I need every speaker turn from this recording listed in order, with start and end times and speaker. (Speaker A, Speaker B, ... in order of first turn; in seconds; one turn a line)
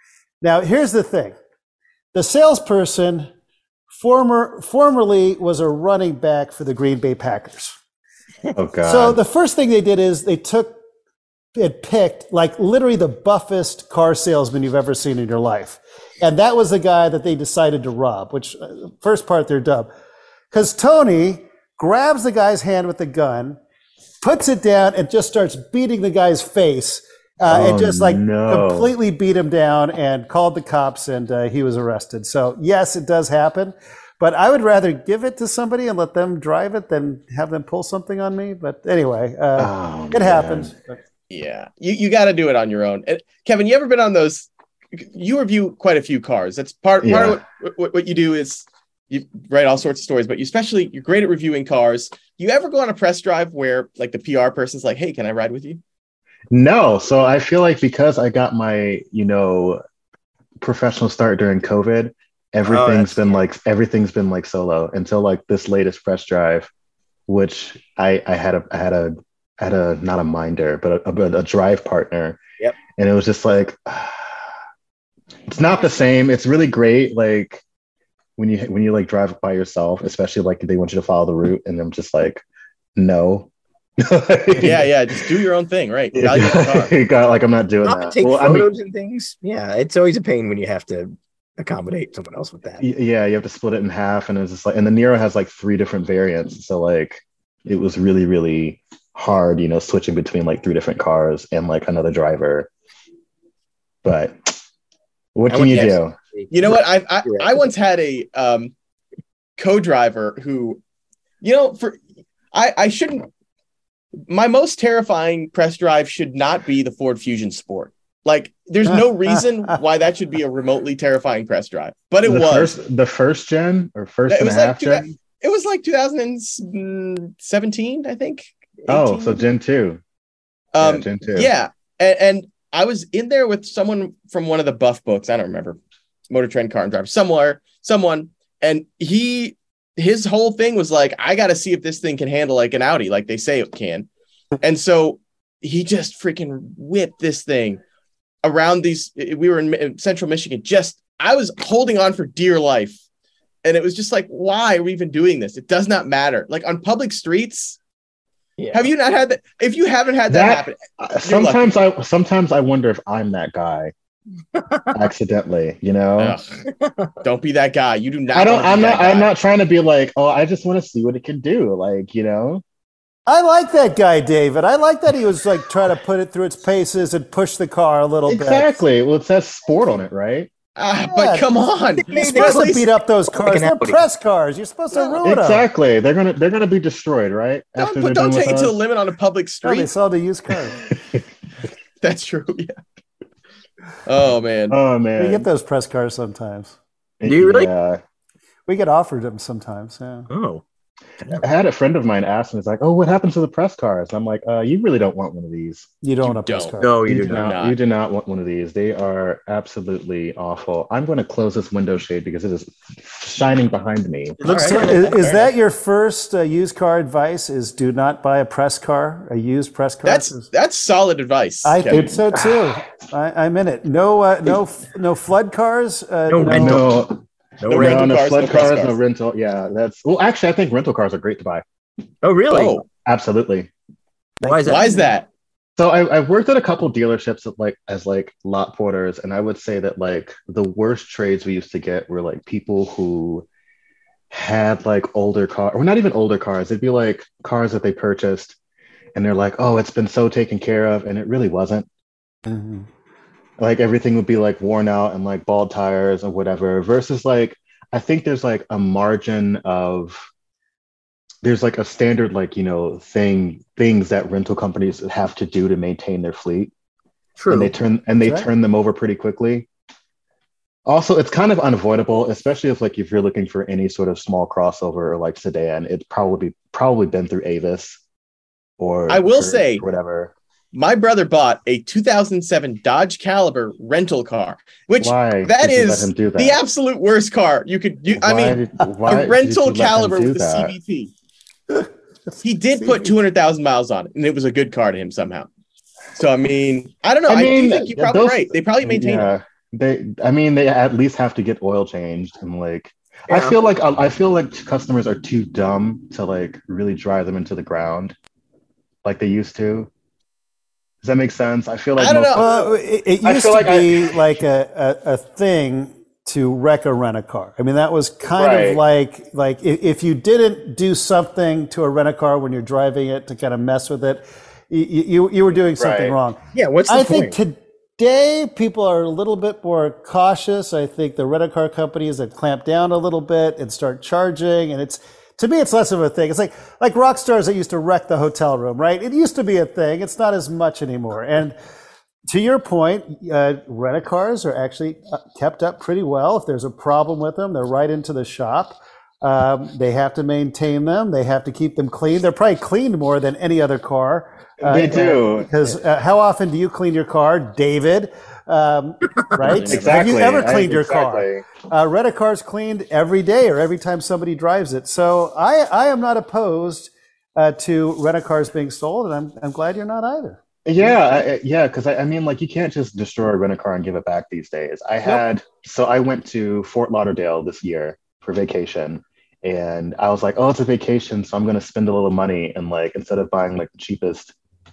Speaker A: 0.4-1.4
Speaker A: 2.1-3.3
Speaker A: 3.9-7.8
Speaker B: 8.5-9.2
Speaker A: 8.8-10.8
Speaker A: 11.6-19.9
Speaker A: 20.5-23.6
Speaker A: 24.2-41.0
Speaker B: 27.5-28.9
Speaker B: 39.6-40.7
Speaker C: 41.3-55.8
Speaker B: 47.0-47.4
Speaker B: 56.5-59.8
Speaker B: 60.6-66.7
Speaker D: 62.7-63.4
Speaker B: 67.3-72.4
Speaker B: 73.0-74.3
Speaker B: 75.5-77.6
Speaker B: 78.4-82.4
Speaker B: 83.0-85.2
Speaker C: 84.6-86.9
Speaker B: 86.1-88.7
Speaker D: 87.8-92.8
Speaker B: 92.8-102.7
Speaker B: 104.0-104.5
Speaker B: 105.3-106.1
Speaker D: 105.5-106.7
Speaker C: 106.5-108.7
Speaker D: 107.2-107.6
Speaker C: 109.6-110.8
Speaker C: 111.4-112.0
Speaker C: 112.5-113.3
Speaker C: 114.3-122.7
Speaker A: 118.8-119.7
Speaker B: 122.2-125.1
Speaker C: 124.3-129.4
Speaker B: 128.9-130.0
Speaker C: 130.7-135.8
Speaker B: 130.8-131.5
Speaker C: 136.3-144.1
Speaker C: 144.6-147.8
Speaker C: 148.4-153.0
Speaker C: 153.6-157.8
Speaker D: 158.6-158.9
Speaker C: 158.7-161.7
Speaker B: 160.3-163.9
Speaker D: 164.5-164.9
Speaker B: 164.9-166.4
Speaker C: 166.2-166.6
Speaker D: 166.7-167.1
Speaker C: 167.2-169.3
Speaker B: 168.3-172.6
Speaker A: 173.3-178.8
Speaker B: 178.3-180.5
Speaker C: 180.8-182.9
Speaker A: 181.1-181.5
Speaker D: 181.9-184.0
Speaker A: 182.1-185.7
Speaker B: 185.2-188.8
Speaker C: 187.8-189.9
Speaker A: 189.6-190.8
Speaker C: 192.0-192.7
Speaker C: 194.1-194.8
Speaker B: 194.7-195.5
Speaker A: 195.2-196.7
Speaker B: 197.2-198.0
Speaker D: 197.2-197.7
Speaker A: 198.7-200.3
Speaker D: 200.3-200.6
Speaker B: 201.3-205.9
Speaker A: 206.0-207.0
Speaker C: 206.2-207.8
Speaker D: 206.8-207.4
Speaker B: 207.1-214.4
Speaker D: 214.4-215.4
Speaker C: 214.4-215.4
Speaker A: 214.5-220.4
Speaker C: 220.0-222.1
Speaker A: 221.6-226.9
Speaker B: 221.9-222.7
Speaker D: 226.3-226.9
Speaker B: 226.4-231.6
Speaker D: 227.6-228.7
Speaker C: 227.7-228.9
Speaker D: 232.2-232.8
Speaker C: 232.5-232.8
Speaker B: 233.0-233.7
Speaker D: 234.4-235.1
Speaker C: 234.4-235.3
Speaker B: 235.8-243.5
Speaker B: 244.3-248.6
Speaker B: 249.1-251.9
Speaker A: 252.4-252.8
Speaker B: 253.6-260.2
Speaker B: 261.4-266.7
Speaker D: 267.4-267.7
Speaker B: 267.5-269.7
Speaker A: 268.2-268.5
Speaker B: 270.9-278.0
Speaker B: 278.8-280.3
Speaker C: 279.1-279.8
Speaker C: 280.7-291.1
Speaker B: 285.0-286.6
Speaker B: 288.1-290.7
Speaker A: 291.7-293.1
Speaker C: 292.4-295.5
Speaker C: 296.1-299.3
Speaker B: 297.3-308.1
Speaker D: 303.3-303.6
Speaker B: 309.0-309.9
Speaker B: 311.0-312.5
Speaker C: 312.0-312.7
Speaker A: 312.3-341.6
Speaker B: 313.2-314.4
Speaker B: 318.3-318.8
Speaker B: 325.8-326.1
Speaker D: 326.5-327.4
Speaker A: 342.3-371.2
Speaker B: 354.6-355.5
Speaker C: 359.4-360.1
Speaker B: 359.7-361.4
Speaker B: 370.6-384.3